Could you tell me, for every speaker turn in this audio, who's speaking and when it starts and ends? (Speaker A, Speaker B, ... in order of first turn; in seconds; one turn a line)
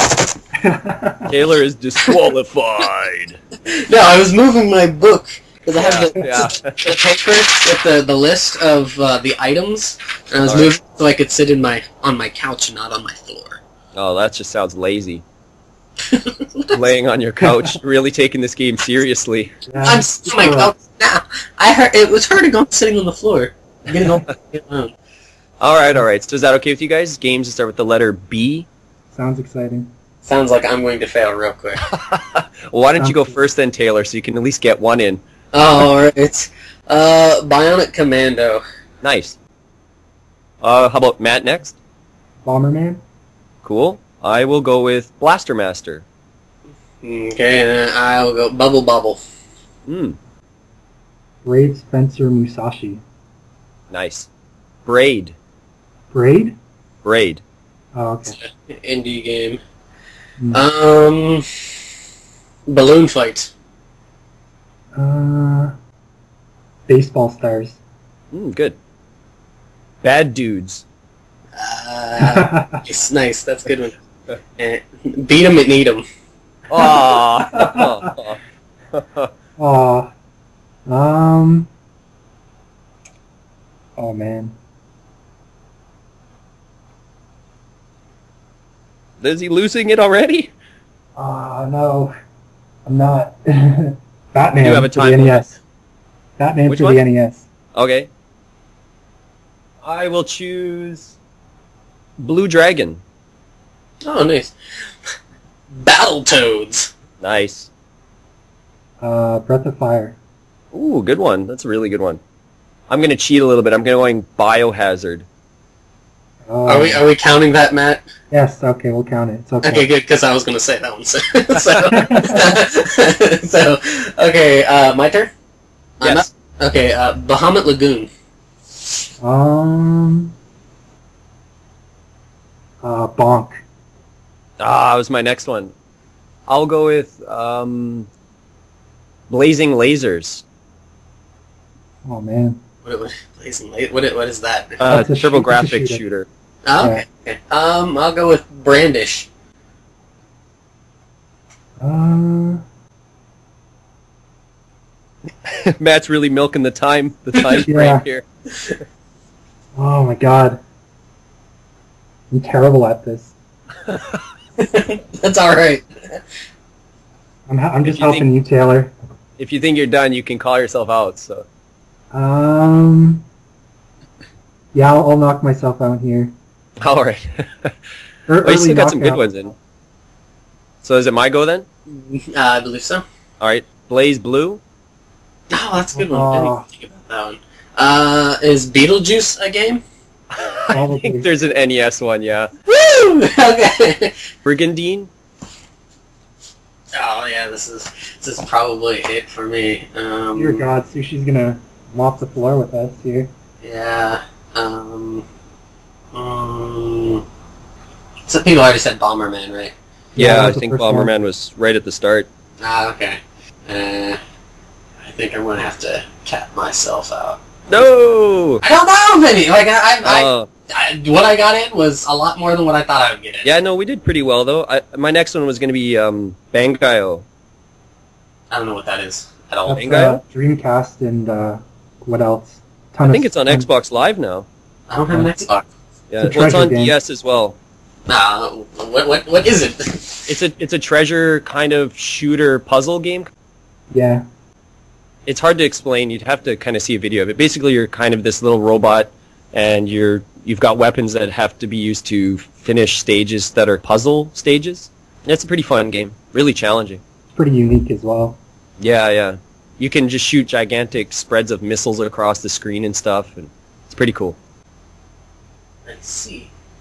Speaker A: 0.5-1.3
Speaker B: 1.3-3.4
Speaker C: 3.6-13.6
Speaker B: 5.8-6.8
Speaker B: 10.4-10.7
Speaker B: 13.9-15.2
Speaker C: 16.1-16.8
Speaker B: 16.7-19.5
Speaker A: 17.4-17.8
Speaker A: 19.7-20.7
Speaker C: 19.8-24.9
Speaker B: 25.6-28.7
Speaker A: 29.1-29.9
Speaker C: 30.2-31.8
Speaker B: 31.9-35.2
Speaker A: 33.0-33.4
Speaker C: 35.5-38.6
Speaker B: 39.0-39.4
Speaker B: 40.6-41.8
Speaker A: 42.4-43.0
Speaker B: 43.6-46.0
Speaker C: 47.0-49.2
Speaker B: 49.9-50.2
Speaker A: 51.4-53.0
Speaker B: 53.9-54.3
Speaker B: 54.9-55.3
Speaker A: 56.1-56.5
Speaker B: 57.0-57.4
Speaker A: 57.9-58.4
Speaker C: 58.3-59.6
Speaker C: 60.5-61.4
Speaker C: 62.7-63.5
Speaker A: 64.9-65.7
Speaker A: 66.9-67.8
Speaker B: 68.3-68.8
Speaker B: 70.0-70.8
Speaker C: 71.6-74.0
Speaker A: 72.2-72.8
Speaker C: 74.6-76.0
Speaker B: 76.7-78.4
Speaker A: 77.5-78.1
Speaker B: 78.9-79.3
Speaker A: 79.6-80.1
Speaker A: 80.9-81.7
Speaker A: 84.0-84.5
Speaker B: 89.2-90.5
Speaker A: 91.2-92.1
Speaker A: 92.8-95.6
Speaker B: 94.6-95.4
Speaker A: 96.4-97.5
Speaker B: 96.7-97.0
Speaker B: 97.7-98.1
Speaker B: 99.8-101.2
Speaker B: 102.2-103.0
Speaker C: 104.0-104.5
Speaker C: 105.7-106.9
Speaker B: 107.2-107.7
Speaker A: 109.0-110.2
Speaker B: 110.7-112.2
Speaker B: 112.9-115.2
Speaker A: 116.5-117.0
Speaker C: 116.7-118.0
Speaker A: 118.3-119.8
Speaker C: 119.6-125.3
Speaker A: 121.9-122.6
Speaker C: 126.0-128.1
Speaker A: 129.2-130.3
Speaker A: 132.8-133.6
Speaker B: 134.6-135.7
Speaker B: 136.5-138.1
Speaker B: 139.3-140.4
Speaker A: 142.0-142.6
Speaker C: 142.8-144.8
Speaker B: 144.8-146.3
Speaker A: 144.9-146.0
Speaker C: 146.7-149.3
Speaker A: 146.8-147.0
Speaker A: 151.8-152.6
Speaker B: 155.5-158.2
Speaker A: 157.7-158.0
Speaker A: 159.8-160.6
Speaker A: 162.3-163.3
Speaker B: 163.9-164.2
Speaker C: 164.6-166.2
Speaker A: 167.5-168.9
Speaker B: 167.8-168.3
Speaker B: 169.4-171.4
Speaker A: 172.1-173.2
Speaker A: 174.7-176.3
Speaker B: 176.8-177.7
Speaker A: 178.3-179.3
Speaker B: 178.4-179.5
Speaker B: 180.8-181.7
Speaker C: 181.9-183.0
Speaker B: 183.4-184.6
Speaker C: 185.5-189.8
Speaker A: 185.9-186.7
Speaker B: 190.4-192.5
Speaker A: 190.7-191.3
Speaker C: 192.7-194.2
Speaker B: 194.4-195.1
Speaker C: 196.9-200.6
Speaker A: 200.3-203.3
Speaker C: 203.6-205.2
Speaker C: 206.1-207.2
Speaker C: 208.2-209.7
Speaker A: 210.2-211.1
Speaker B: 210.2-212.3
Speaker C: 212.6-214.2
Speaker C: 215.0-217.4
Speaker B: 217.7-218.6
Speaker C: 218.6-223.5
Speaker B: 220.1-220.5
Speaker B: 223.4-227.2
Speaker C: 228.5-229.9
Speaker A: 229.7-233.7
Speaker B: 229.8-230.2
Speaker B: 233.0-234.5
Speaker C: 234.9-235.7
Speaker B: 236.1-237.6
Speaker A: 236.2-236.9
Speaker C: 238.1-240.3
Speaker B: 240.3-243.3
Speaker A: 243.9-244.2
Speaker B: 245.2-257.0
Speaker A: 257.3-258.4
Speaker B: 258.8-264.4
Speaker C: 265.9-266.5